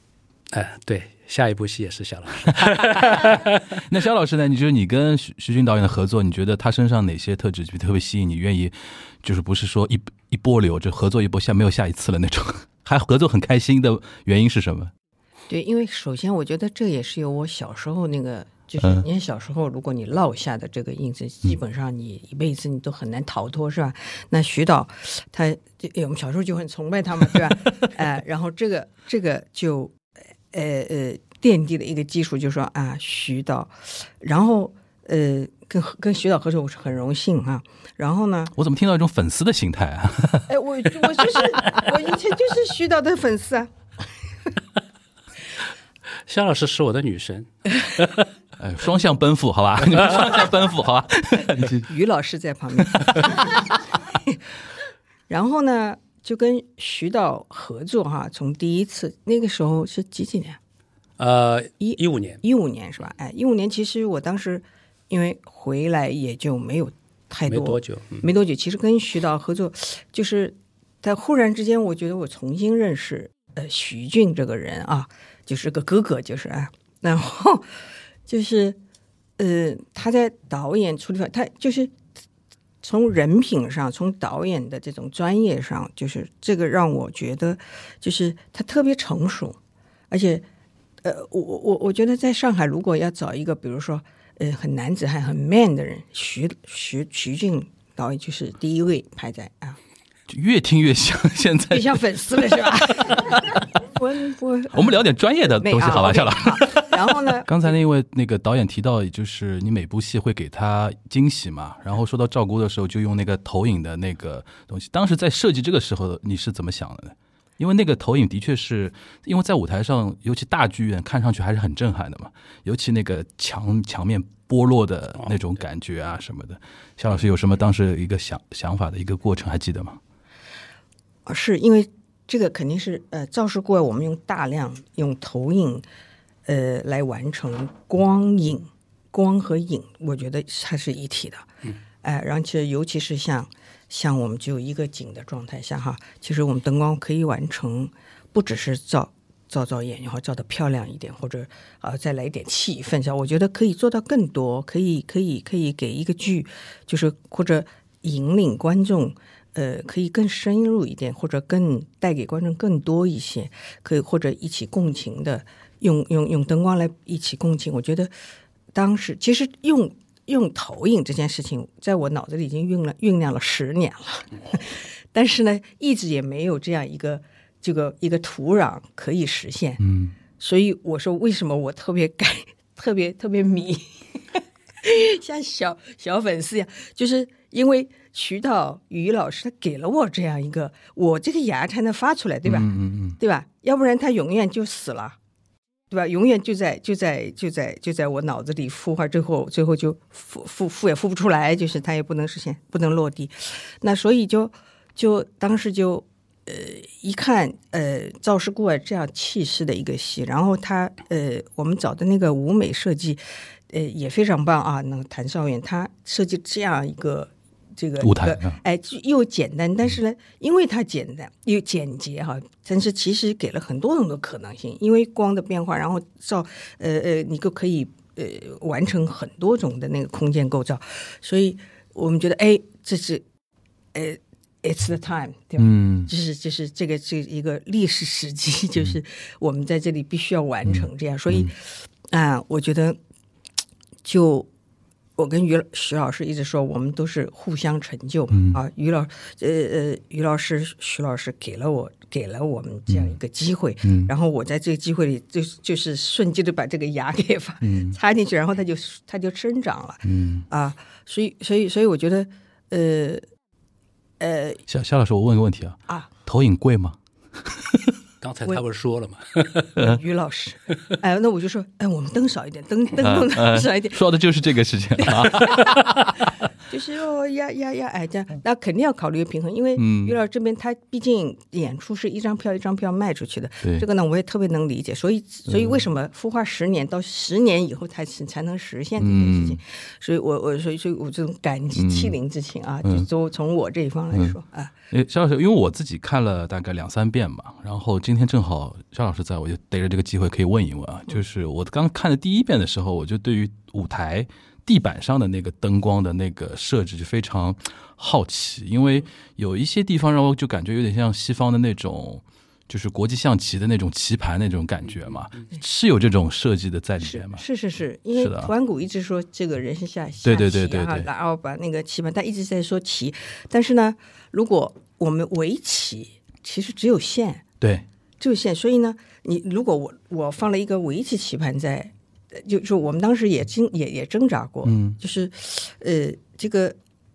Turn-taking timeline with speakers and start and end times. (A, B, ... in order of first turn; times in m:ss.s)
0:00.5-0:03.5 A
0:03.8-0:14.9 B
0:15.5-0:29.9 C
0:30.5-0:38.5 C
0:38.6-0:40.5 B
0:40.5-0:43.7 C
0:46.3-0:48.2 A
0:48.6-0:51.9 B
0:51.8-0:53.6 C
0:55.3-1:00.6 C
1:01.2-1:02.4 A
1:01.8-1:17.7 C
1:07.5-1:08.3 A
1:18.3-1:18.8 C
1:19.4-1:21.9 C
1:22.8-1:29.6 C
1:30.1-1:30.4 C
1:31.0-1:39.8 C
1:40.3-1:42.0 B
1:41.7-1:47.7 C
1:44.7-2:10.0 B
2:11.2-2:15.8 C
2:16.5-2:21.5 C
2:22.0-2:48.1 C
2:48.7-2:59.8 C
2:59.8-3:00.1 B
3:00.4-3:04.2 C
3:04.8-3:15.2 C
3:12.4-3:13.2 B
3:15.9-3:53.2 C
3:38.0-3:38.6 B
3:53.9-4:03.0 C
3:55.6-3:56.1 B
4:00.7-4:01.5 B
4:04.0-4:04.5 C
4:05.2-4:23.2 C
4:08.3-4:08.6 B
4:13.8-4:14.1 B
4:17.6-4:18.0 B
4:20.0-4:20.4 B
4:24.2-4:24.6 C
4:24.7-4:27.9 B
4:28.2-4:29.6 A
4:29.8-4:34.0 C
4:33.0-4:36.1 B
4:35.0-4:35.8 C
4:36.7-4:54.7 C
4:39.8-4:40.1 B
4:45.5-4:45.8 B
4:49.0-4:49.6 B
4:51.8-4:52.1 B
4:54.9-5:17.4 B
5:17.0-5:27.4 C
5:18.2-5:18.5 B
5:20.2-5:21.1 B
5:28.2-5:36.8 C
5:34.6-5:35.0 B